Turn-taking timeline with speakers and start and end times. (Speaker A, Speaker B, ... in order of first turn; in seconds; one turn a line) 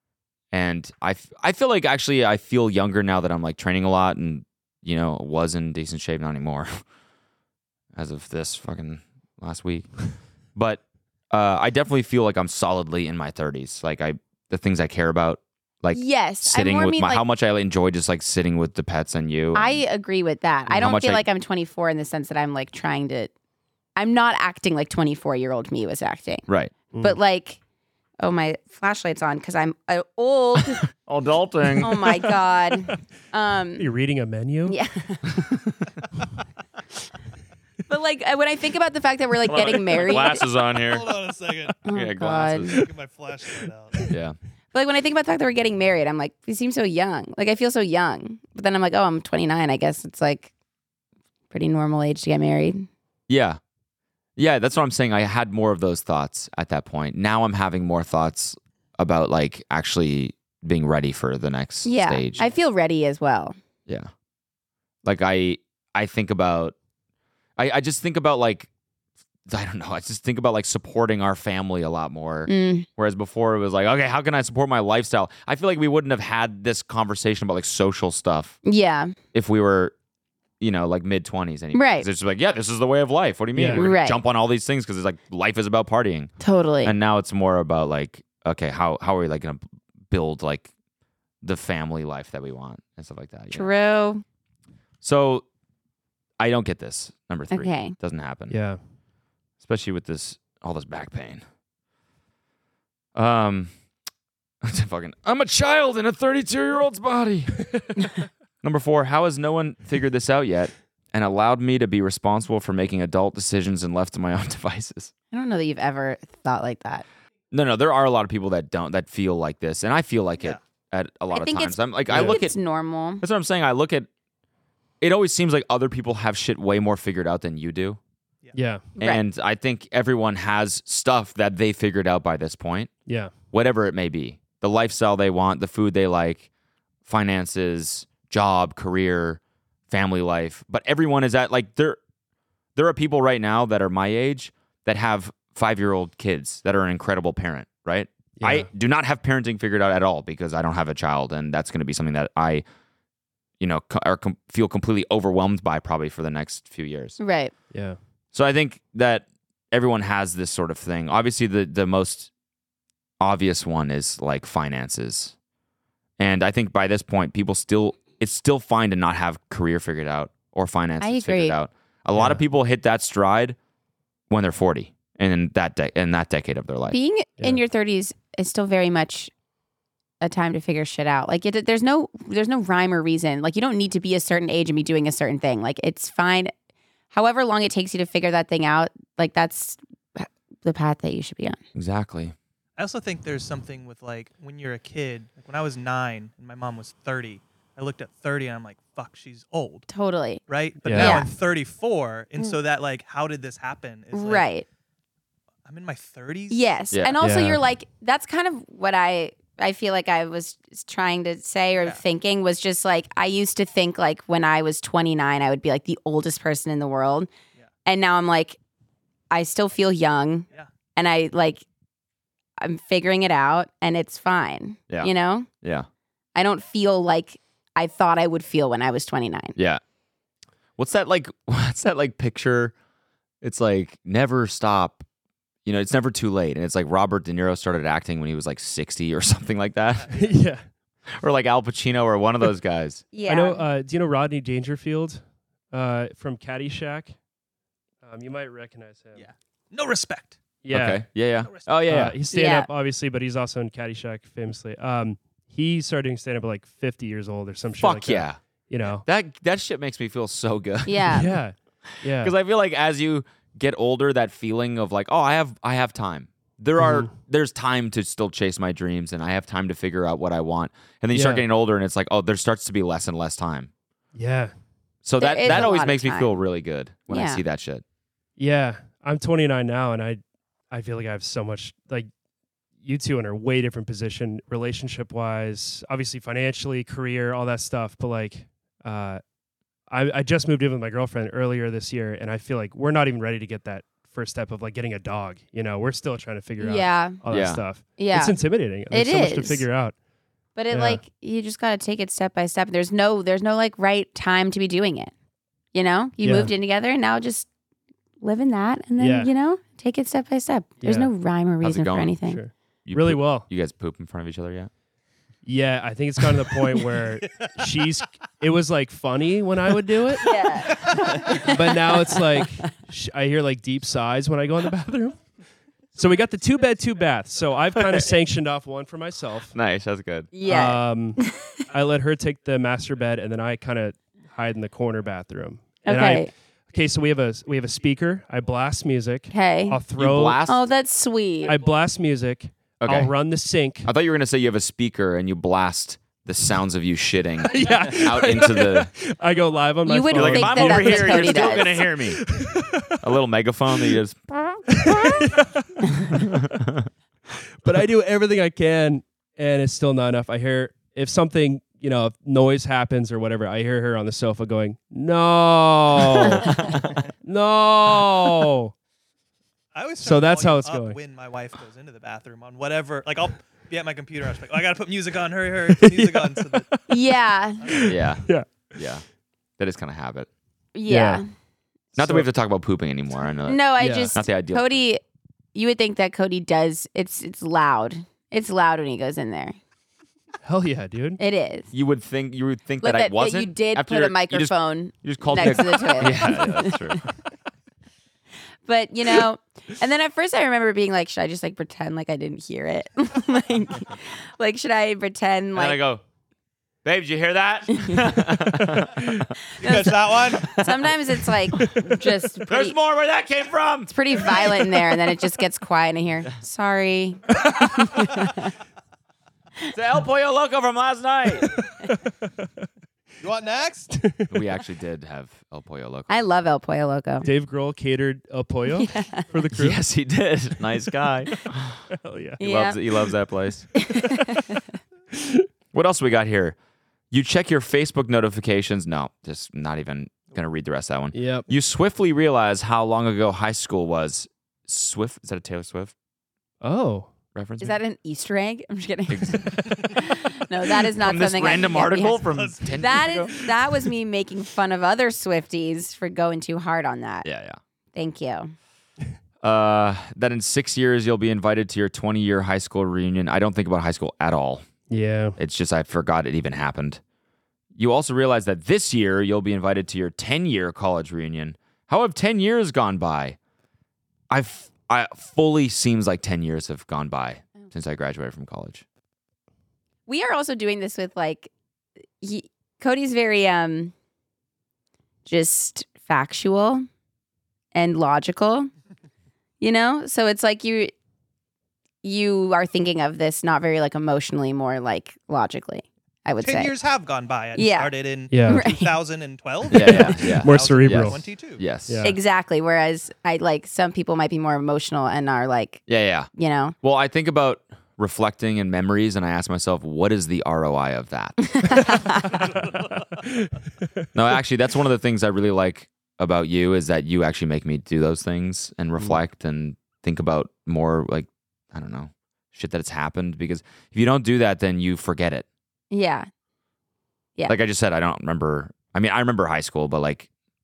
Speaker A: 0.5-6.8
Speaker A: 7.9-9.9
Speaker A: 10.5-19.8
Speaker B: 15.9-17.2
Speaker B: 19.5-23.3
Speaker A: 20.7-21.2
Speaker B: 23.9-26.4
Speaker A: 26.5-26.7
Speaker C: 26.9-27.2
Speaker B: 27.0-27.6
Speaker B: 28.2-30.9
Speaker A: 31.0-32.0
Speaker B: 31.8-33.9
Speaker C: 33.8-34.8
Speaker B: 34.6-35.4
Speaker A: 35.4-35.8
Speaker B: 37.9-40.4
Speaker A: 39.5-41.1
Speaker D: 40.7-41.8
Speaker B: 41.9-42.8
Speaker A: 41.9-42.8
Speaker D: 42.7-44.1
Speaker A: 44.1-44.4
Speaker B: 44.7-50.5
Speaker B: 51.5-52.9
Speaker A: 53.3-53.6
Speaker A: 54.4-62.5
Speaker B: 61.8-63.5
Speaker A: 65.0-66.7
Speaker A: 67.6-68.7
Speaker A: 69.5-78.6
Speaker B: 72.5-72.9
Speaker B: 78.6-79.1
Speaker A: 79.3-79.9
Speaker A: 80.6-86.3
Speaker B: 81.7-82.1
Speaker C: 83.5-83.8
Speaker B: 83.7-84.2
Speaker B: 86.4-86.9
Speaker A: 86.8-90.7
Speaker A: 91.4-93.7
Speaker B: 93.5-94.2
Speaker A: 95.0-95.5
Speaker A: 96.4-98.6
Speaker B: 97.5-97.9
Speaker C: 98.5-98.8
Speaker A: 99.6-101.4
Speaker A: 103.1-103.7
Speaker A: 104.6-107.6
Speaker A: 108.6-115.1
Speaker B: 115.3-117.0
Speaker A: 117.5-122.5
Speaker B: 121.3-123.2
Speaker C: 122.1-122.4
Speaker A: 123.2-124.1
Speaker A: 125.0-128.0
Speaker C: 128.5-128.8
Speaker A: 129.0-132.9
Speaker C: 133.1-133.3
Speaker A: 133.5-136.5
Speaker A: 137.0-142.0
Speaker A: 142.8-152.6
Speaker C: 148.4-148.7
Speaker A: 153.6-157.2
Speaker B: 157.2-157.5
Speaker C: 157.7-158.0
Speaker A: 158.3-162.3
Speaker A: 163.2-165.3
Speaker A: 166.2-173.6
Speaker B: 171.0-171.6
Speaker C: 172.2-172.4
Speaker A: 174.3-177.0
Speaker B: 176.9-179.3
Speaker B: 180.2-186.5
Speaker B: 187.1-191.6
Speaker A: 191.7-192.3
Speaker D: 192.8-199.9
Speaker B: 199.9-200.4
Speaker D: 200.5-204.5
Speaker C: 200.8-201.2
Speaker B: 200.9-201.3
Speaker B: 204.1-204.6
Speaker D: 205.6-206.8
Speaker B: 206.5-217.3
Speaker C: 207.2-207.6
Speaker B: 217.8-218.6
Speaker B: 219.3-221.6
Speaker B: 222.6-225.5
Speaker A: 225.6-225.9
Speaker B: 226.3-229.5
Speaker A: 229.6-229.8
Speaker A: 230.8-232.7
Speaker A: 233.4-235.1
Speaker A: 235.6-240.1
Speaker D: 240.0-240.3
Speaker C: 240.1-240.6
Speaker A: 241.1-243.0
Speaker B: 243.1-243.6
Speaker C: 243.2-247.2
Speaker C: 248.0-249.3
Speaker D: 249.2-250.4
Speaker C: 250.6-251.1
Speaker A: 250.7-252.2
Speaker D: 251.4-251.7
Speaker C: 251.9-259.1
Speaker B: 252.3-252.7
Speaker A: 257.8-258.4
Speaker A: 259.0-261.2
Speaker B: 260.9-261.3
Speaker C: 261.1-262.3
Speaker A: 261.9-273.7
Speaker C: 266.8-267.1
Speaker C: 271.1-271.4
Speaker C: 274.1-274.5
Speaker A: 275.0-277.8
Speaker B: 275.2-276.3
Speaker B: 277.1-277.4
Speaker C: 278.4-282.1
Speaker C: 282.8-289.2
Speaker C: 289.9-299.9
Speaker B: 296.6-297.2
Speaker A: 297.3-297.6
Speaker B: 298.0-298.4
Speaker B: 298.9-299.6
Speaker B: 300.6-305.1
Speaker C: 300.7-301.0
Speaker B: 305.7-307.5
Speaker C: 306.2-306.5
Speaker B: 308.2-312.4
Speaker C: 309.0-309.3
Speaker C: 310.8-311.1
Speaker A: 311.6-312.1
Speaker C: 312.2-313.4
Speaker A: 312.8-314.7
Speaker C: 315.4-325.2
Speaker B: 320.2-322.7
Speaker D: 320.6-321.5
Speaker C: 325.9-329.5
Speaker A: 329.5-330.3
Speaker B: 330.3-331.6
Speaker C: 330.4-340.4
Speaker B: 335.9-336.3
Speaker B: 339.3-339.8
Speaker A: 339.9-340.6
Speaker B: 340.5-341.6
Speaker C: 341.4-343.9
Speaker A: 342.8-343.1
Speaker A: 343.8-348.9
Speaker C: 347.4-353.0
Speaker B: 349.9-351.9
Speaker A: 350.1-352.3
Speaker A: 353.0-354.6
Speaker C: 354.8-356.4
Speaker A: 356.1-356.9
Speaker C: 357.6-366.6
Speaker A: 366.5-366.8
Speaker C: 367.2-368.7
Speaker D: 369.7-376.7
Speaker C: 370.0-371.0
Speaker C: 375.7-376.9
Speaker B: 376.9-377.8
Speaker D: 377.6-377.9
Speaker C: 377.6-378.7
Speaker A: 377.9-379.0
Speaker A: 379.6-380.3
Speaker B: 380.7-381.3
Speaker C: 380.9-381.2
Speaker A: 381.9-383.6
Speaker C: 381.9-382.2
Speaker B: 383.4-385.0
Speaker C: 383.8-384.1
Speaker A: 384.1-384.8
Speaker B: 385.5-389.6
Speaker C: 390.4-391.2
Speaker B: 391.2-391.7
Speaker A: 391.7-397.0
Speaker B: 392.8-397.0
Speaker C: 395.4-396.6
Speaker B: 398.6-405.8
Speaker A: 405.5-406.0
Speaker A: 406.8-409.4
Speaker B: 407.7-408.1
Speaker C: 408.7-409.0
Speaker B: 409.5-412.8
Speaker D: 409.6-410.7
Speaker C: 411.5-412.1
Speaker A: 412.5-413.9
Speaker B: 413.9-418.5
Speaker A: 419.7-421.6
Speaker C: 421.9-422.5
Speaker D: 423.2-424.0
Speaker C: 424.0-424.3
Speaker A: 424.3-426.1
Speaker B: 426.1-427.3
Speaker C: 427.2-429.8
Speaker B: 428.7-429.3
Speaker A: 429.5-431.8
Speaker C: 431.9-432.4
Speaker A: 432.4-433.7
Speaker B: 432.4-432.8
Speaker B: 433.8-434.6
Speaker C: 435.1-435.5
Speaker A: 435.7-436.6
Speaker A: 437.1-445.9
Speaker C: 441.1-441.5
Speaker C: 446.6-447.1
Speaker A: 447.3-447.8
Speaker B: 447.6-457.2
Speaker A: 449.1-449.8
Speaker A: 451.0-453.4
Speaker D: 452.2-453.2
Speaker A: 457.2-457.6
Speaker B: 457.9-458.5
Speaker A: 459.4-464.7
Speaker C: 464.9-465.4
Speaker A: 465.4-467.0
Speaker A: 467.8-473.4
Speaker A: 474.3-478.8
Speaker B: 480.1-481.5
Speaker B: 482.2-483.9
Speaker B: 485.2-486.9
Speaker B: 487.7-488.7
Speaker B: 489.6-490.9
Speaker B: 492.0-496.7
Speaker D: 496.4-501.6
Speaker B: 497.5-497.9
Speaker C: 498.3-498.6
Speaker B: 498.4-499.0
Speaker A: 499.7-502.0
Speaker C: 499.7-501.3
Speaker C: 501.9-502.2
Speaker B: 502.0-506.8
Speaker A: 505.9-506.3
Speaker A: 506.8-511.6
Speaker B: 511.4-512.5
Speaker C: 512.5-513.6
Speaker A: 514.1-525.5
Speaker B: 525.9-526.3
Speaker A: 527.5-530.3